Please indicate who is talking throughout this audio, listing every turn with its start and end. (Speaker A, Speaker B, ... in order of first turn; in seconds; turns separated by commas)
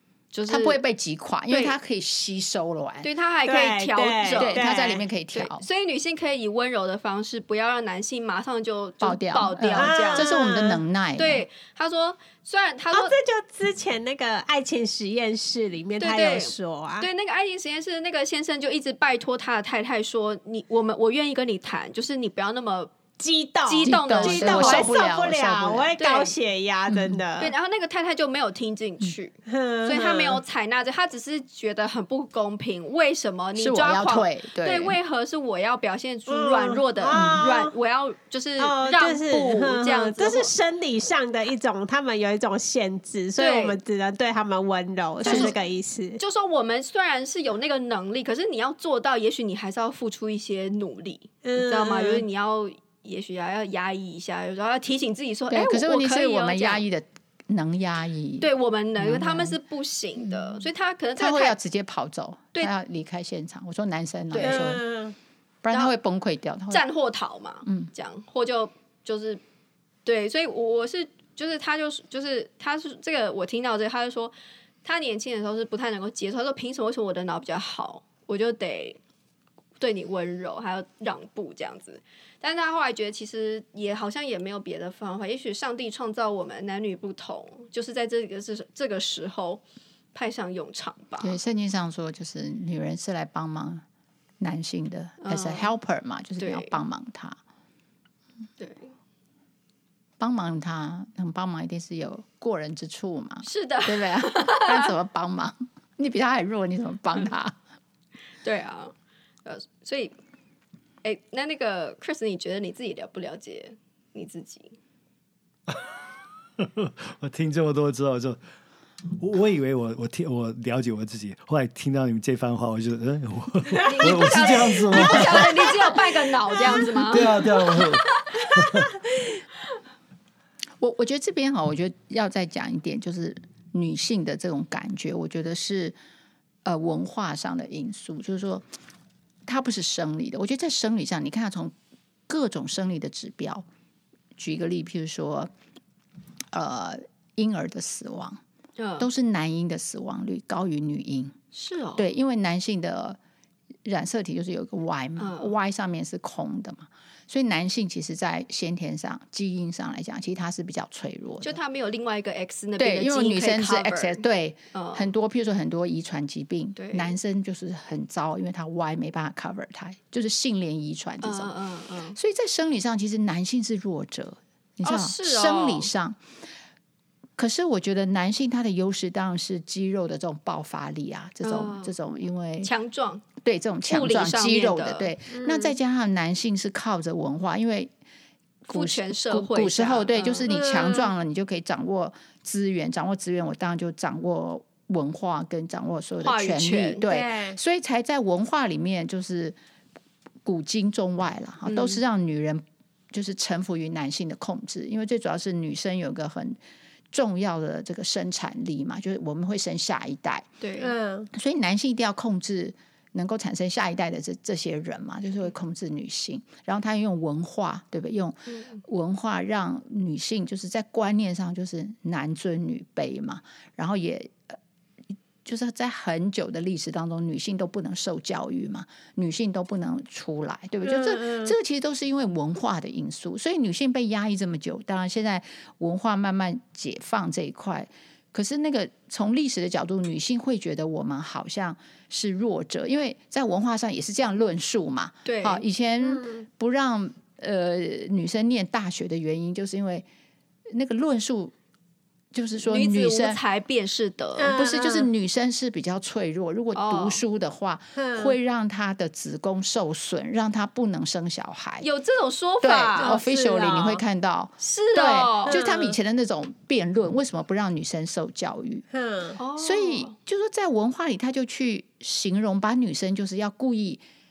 Speaker A: 0.3-0.8, Speaker B: 0.5-3.1, Speaker A: 1.5-1.8, Speaker A: 3.0-4.7, Speaker C: 3.5-5.0, Speaker B: 4.3-5.7, Speaker A: 5.3-10.3, Speaker B: 9.0-11.4, Speaker C: 9.8-10.8, Speaker A: 11.2-13.2, Speaker C: 12.9-17.1, Speaker A: 16.0-22.9, Speaker C: 23.2-27.5, Speaker A: 23.7-25.0, Speaker B: 23.8-25.9, Speaker A: 26.0-26.3, Speaker B: 26.9-27.2, Speaker A: 27.4-40.5, Speaker C: 29.5-30.4, Speaker B: 33.6-35.0, Speaker C: 36.3-37.8, Speaker B: 37.1-37.4, Speaker C: 38.6-46.2, Speaker A: 43.4-43.8, Speaker B: 45.2-45.6, Speaker A: 45.2-45.6, Speaker A: 46.2-56.9, Speaker C: 51.4-52.2, Speaker B: 55.5-59.6, Speaker A: 58.4-61.6, Speaker B: 60.2-60.6, Speaker B: 61.2-64.8, Speaker A: 64.3-64.8, Speaker C: 64.4-65.2, Speaker B: 65.6-66.8, Speaker A: 66.7-69.4, Speaker B: 67.7-67.9, Speaker A: 70.0-79.0, Speaker A: 79.8-89.6, Speaker A: 90.1-91.4, Speaker B: 91.2-93.8, Speaker B: 94.4-97.4, Speaker A: 95.2-95.7, Speaker A: 96.4-96.7, Speaker A: 98.6-98.9, Speaker B: 100.2-107.5, Speaker A: 103.4-104.9, Speaker A: 108.4-108.9, Speaker A: 109.5-110.2, Speaker A: 111.0-114.8, Speaker D: 116.6-118.4, Speaker D: 119.2-125.8, Speaker A: 123.8-128.4, Speaker C: 125.0-125.3, Speaker D: 127.0-128.9, Speaker B: 130.8-136.0, Speaker B: 136.7-138.7, Speaker B: 139.5-141.7, Speaker B: 142.3-143.7, Speaker B: 144.4-145.5, Speaker B: 146.5-148.4, Speaker A: 148.8-149.1, Speaker B: 149.0-151.3, Speaker A: 151.5-152.1, Speaker B: 152.0-153.2, Speaker B: 153.8-161.6, Speaker A: 155.2-155.5, Speaker A: 161.4-164.2, Speaker B: 162.8-171.5, Speaker A: 164.7-165.1, Speaker A: 166.8-167.2, Speaker A: 171.2-172.2, Speaker B: 172.2-176.2, Speaker A: 174.8-175.9, Speaker B: 177.4-182.7, Speaker A: 181.4-181.9, Speaker A: 182.6-183.2, Speaker B: 183.4-187.9, Speaker A: 183.9-185.1, Speaker C: 185.3-185.8, Speaker B: 188.7-199.6, Speaker A: 188.7-190.5, Speaker C: 190.5-191.1, Speaker A: 196.2-197.1, Speaker C: 197.0-197.6, Speaker B: 200.4-206.6, Speaker A: 201.7-202.0, Speaker B: 207.1-210.5, Speaker A: 210.6-210.9, Speaker C: 210.8-211.3, Speaker B: 211.3-224.6, Speaker A: 218.5-218.8, Speaker B: 225.4-250.1, Speaker C: 230.8-231.5, Speaker A: 245.2-245.6, Speaker C: 246.0-246.4, Speaker B: 250.7-251.5, Speaker B: 252.3-253.4, Speaker A: 252.6-254.5, Speaker C: 254.4-255.1, Speaker B: 254.5-261.9, Speaker A: 256.8-257.2, Speaker C: 258.0-258.4, Speaker A: 261.8-263.2, Speaker B: 262.6-268.9, Speaker C: 263.0-264.0, Speaker A: 264.6-265.6, Speaker C: 265.5-266.0, Speaker C: 268.9-269.4, Speaker A: 269.4-270.1, Speaker B: 269.6-274.0